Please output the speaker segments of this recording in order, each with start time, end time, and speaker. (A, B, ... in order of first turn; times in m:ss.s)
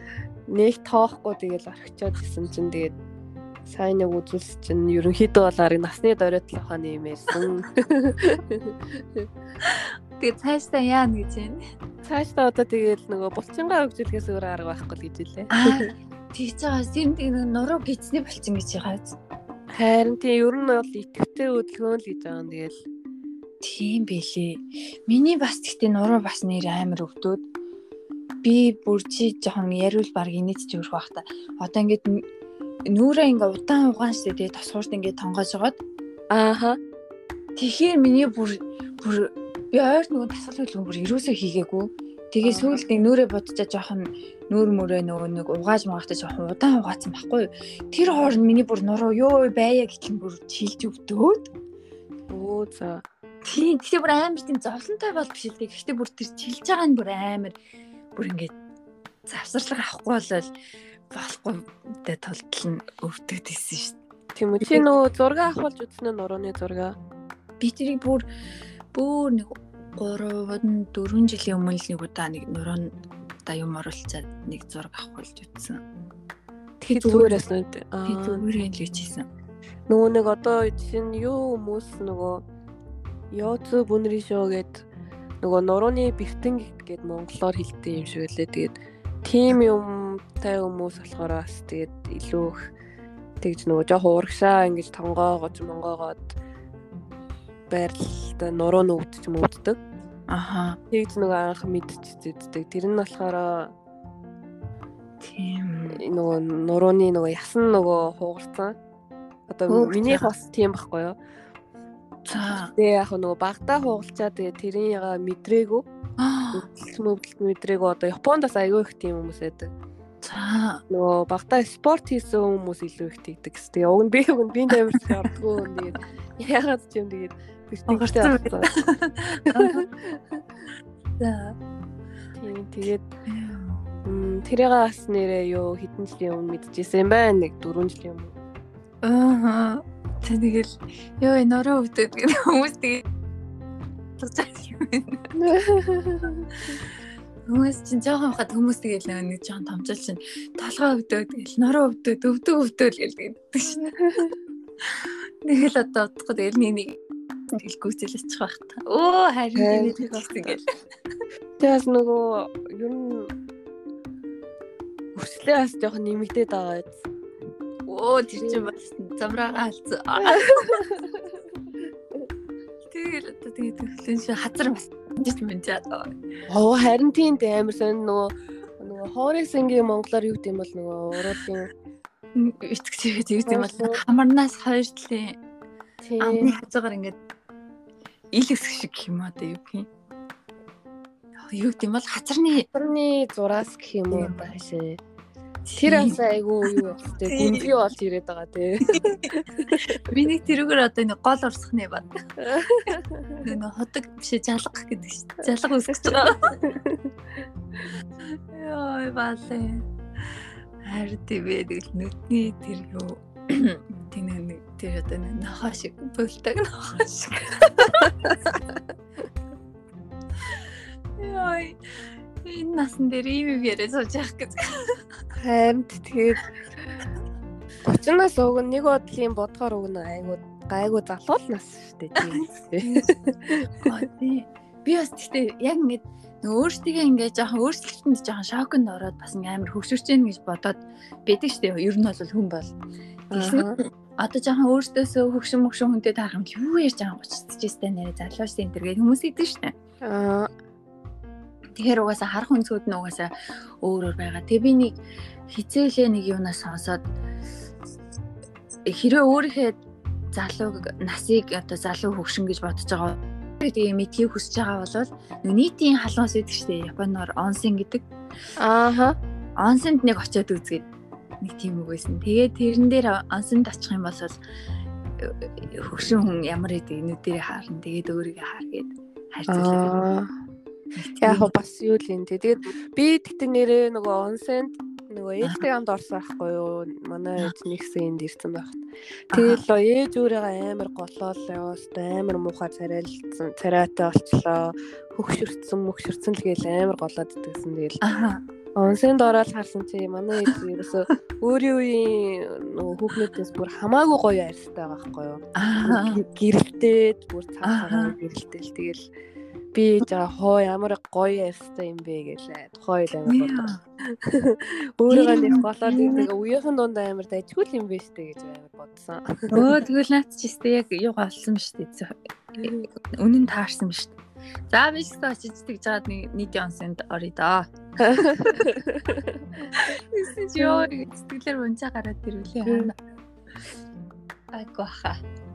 0:00.5-0:02.9 A
0:03.6-0:09.3 A
0:09.6-0:11.6 B
0:12.0-0:15.9 A
0:15.5-0:19.2 B
0:19.7-0:22.8 A
0:23.6-0:27.4 B
0:28.4-0:32.2 B
0:32.9-0:35.8 B
0:36.3-0:36.8 A
0:37.6-0:51.5 B
0:42.4-0:42.8 A
0:52.3-0:53.0 A
0:53.4-0:57.6 B
0:58.1-0:58.5 B
0:59.2-1:00.5 B
1:01.1-1:04.0 B
1:04.4-1:07.0 A
1:04.6-1:04.9 B
1:07.6-1:08.2 B
1:08.9-1:15.8 B
1:16.8-1:18.4 A
1:16.9-1:17.4 B
1:18.0-1:19.2 B
1:19.9-1:22.4 A
1:23.3-1:24.9 A
1:25.4-1:32.7 A
1:33.4-1:36.4 A
1:37.7-1:39.8 A
1:40.3-1:40.8 B
1:40.9-1:43.7 A
1:45.2-1:46.0 B
1:45.9-1:48.8 A
1:49.5-1:51.2 A
1:49.7-1:50.3 B
1:52.2-1:52.7 B
1:52.5-1:55.8 A
1:56.2-1:56.7 B
1:56.5-1:59.7 A
2:00.2-2:00.8 B
2:00.9-2:08.7 A
2:07.9-2:09.9 B
2:09.5-2:10.2 A
2:11.2-2:11.6 B
2:12.4-2:13.1 A
2:13.3-2:13.8 B
2:14.0-2:18.4 A
2:19.0-2:23.0 B
2:24.2-2:25.3 B
2:25.3-2:26.8 A
2:27.4-2:33.9 B
2:33.7-2:34.3 A
2:34.8-2:37.0 B
2:37.5-2:40.6 B
2:39.5-2:40.6 A
2:41.6-2:43.3 A
2:45.1-2:47.0 A
2:47.8-2:50.8 B
2:48.4-2:48.7 A
2:50.2-2:51.3 A
2:52.9-2:56.1 B
2:56.5-3:01.7 A
3:02.3-3:05.4 B
3:03.5-3:04.0 A
3:06.0-3:06.5 A
3:06.2-3:07.2 B
3:08.3-3:09.9 B
3:11.5-3:12.7 B
3:12.7-3:15.0 A
3:14.1-3:14.4 B
3:15.7-3:17.7 B
3:15.8-3:20.0 A
3:18.9-3:19.3 B
3:19.9-3:22.2 B
3:22.4-3:23.4 A
3:22.9-3:26.7 B
3:25.9-3:27.0 A
3:28.2-3:29.8 B
3:30.8-3:38.6 B
3:38.0-3:38.3 A
3:40.4-3:45.0 B
3:45.4-3:46.5 A
3:47.8-3:53.9 A
3:52.2-3:53.1 B
3:53.8-4:02.8 B
4:03.3-4:03.8 A
4:03.3-4:09.7 B
4:10.0-4:10.5 A
4:11.8-4:17.1 B
4:18.8-4:19.8 B
4:20.3-4:28.0 B
4:28.6-4:29.2 A
4:29.6-4:30.8 B
4:31.4-4:34.4 B
4:35.2-4:40.0 B
4:39.5-4:40.3 A
4:41.0-4:41.5 B
4:41.2-4:48.8 A
4:49.3-4:58.0 A
4:49.3-4:49.6 B
4:58.0-4:58.4 B
4:58.8-5:09.0 A
5:05.6-5:06.2 B
5:07.6-5:08.1 B
5:09.7-5:19.8 A
5:13.2-5:13.8 B
5:15.1-5:16.3 B
5:19.5-5:24.2 B
5:22.6-5:22.9 A
5:24.7-5:28.6 B
5:28.0-5:29.7 A
5:29.7-5:33.0 B
5:30.6-5:30.9 A
5:32.6-5:32.9 A
5:34.5-5:35.2 B